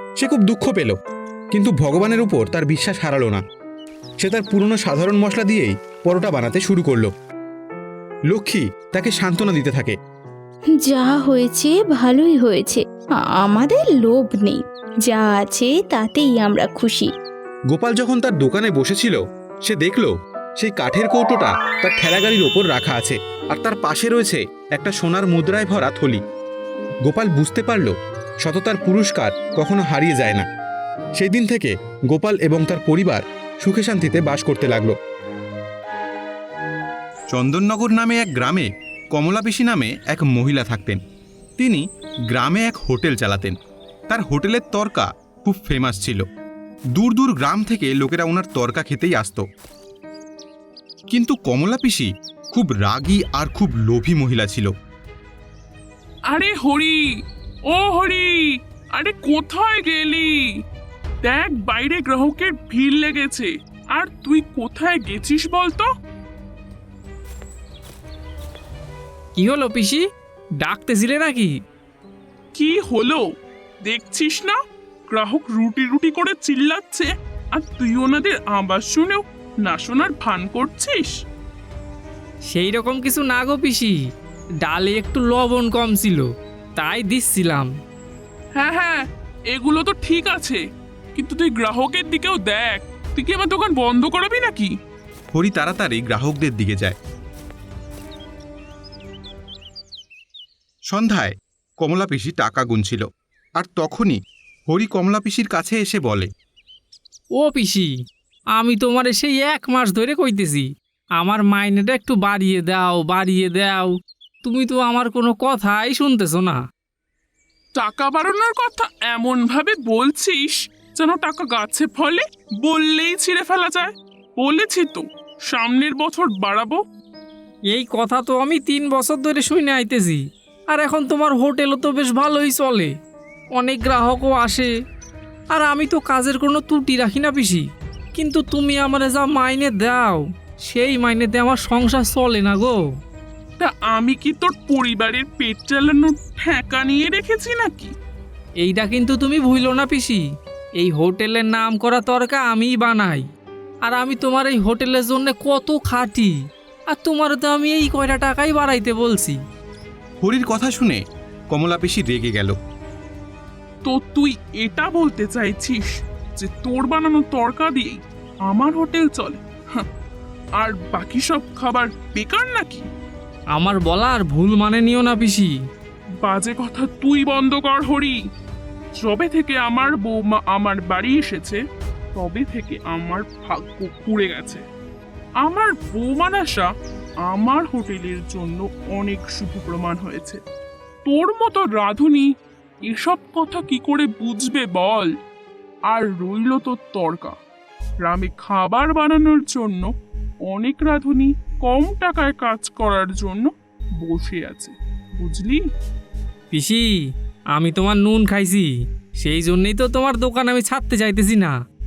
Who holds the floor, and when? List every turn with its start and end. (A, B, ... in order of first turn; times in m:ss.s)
0:00.2-0:01.0 A
0:01.5-0:03.4 A
0:04.2-0:07.1 A
0:08.3-0:10.0 A
0:10.8-0:17.1 B
0:17.7-0:26.2 A
0:27.0-0:30.4 A
0:31.2-0:35.0 A
0:37.3-0:41.0 A
0:41.6-0:43.5 A
0:44.1-0:46.2 A
0:46.9-0:49.4 A
0:51.1-0:54.7 A
0:56.3-0:57.0 C
0:57.7-1:00.4 C
1:01.2-1:05.9 C
1:09.4-1:10.0 D
1:10.6-1:11.5 D
1:12.6-1:13.2 C
1:13.8-1:14.6 C
1:15.1-1:21.2 C
1:22.5-1:24.0 D
1:24.6-1:27.7 D
1:28.6-1:30.6 C
1:31.2-1:34.7 C
1:35.3-1:37.0 A
1:40.9-1:43.0 A
1:43.6-1:44.2 A
1:44.7-1:46.3 A
1:47.4-1:47.9 D
1:48.6-1:50.7 D
1:51.2-1:56.6 D
1:57.8-2:06.8 C
2:07.7-2:12.9 D
2:13.6-2:14.7 D
2:15.5-2:22.8 D
2:23.6-2:27.9 C
2:28.6-2:30.2 D
2:30.8-2:33.3 D
2:33.9-2:36.3 D
2:36.9-2:39.4 D
2:40.2-2:42.5 A
2:43.8-2:49.9 C
2:50.6-2:52.8 C
2:53.5-2:55.5 D
2:56.2-2:58.2 C
2:59.0-3:01.6 C
3:02.1-3:04.6 C
3:05.4-3:06.7 C
3:07.2-3:10.4 C
3:11.0-3:12.3 C
3:12.9-3:15.1 C
3:15.9-3:17.3 C
3:18.0-3:19.9 C
3:20.5-3:25.6 C
3:26.5-3:31.6 D